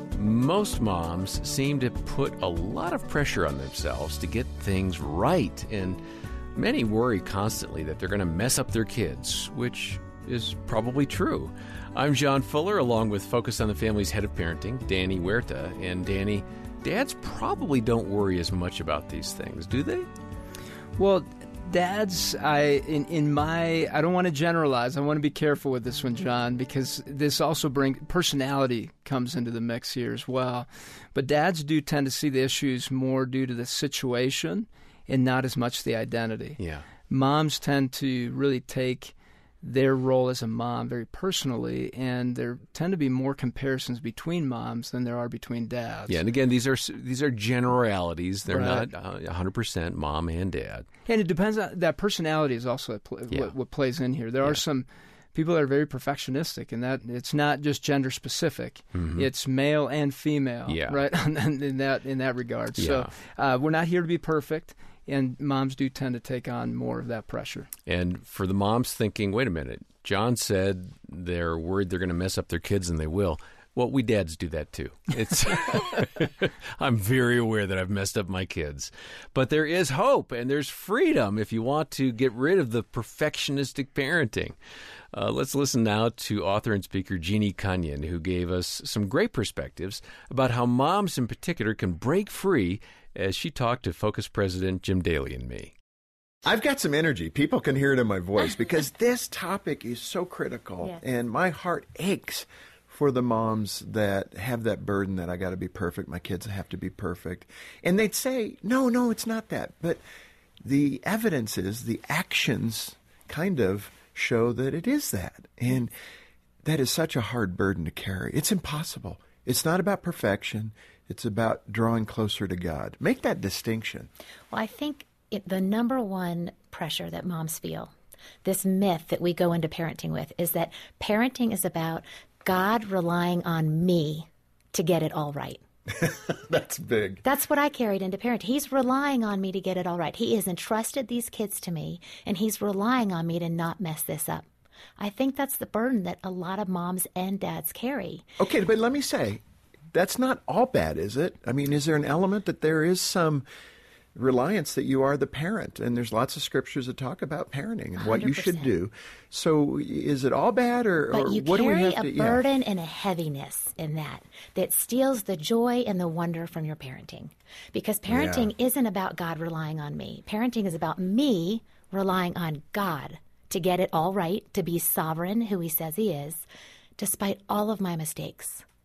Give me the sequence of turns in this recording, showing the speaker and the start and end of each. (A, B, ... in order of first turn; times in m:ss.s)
0:00.1-0:06.0 A
0:06.5-0:20.1 A
0:21.0-0:46.2 B
0:36.6-0:36.9 A
0:46.1-0:50.8 A
0:48.5-0:48.9 B
0:51.0-1:07.7 B
0:58.9-0:59.3 A
1:00.7-1:01.0 A
1:02.8-1:03.1 A
1:07.9-1:24.6 A
1:25.1-1:35.7 A
1:36.4-1:50.0 C
1:50.6-1:55.9 C
1:56.6-2:04.1 C
2:04.5-2:07.9 D
2:08.4-2:15.6 D
2:15.9-2:17.2 C
2:17.2-2:24.4 D
2:25.0-2:28.2 D
2:28.4-2:29.4 C
2:29.9-2:33.4 C
2:34.2-2:42.4 C
2:38.0-2:38.7 D
2:41.1-2:56.4 D
2:48.1-2:48.5 C
2:57.0-2:58.6 D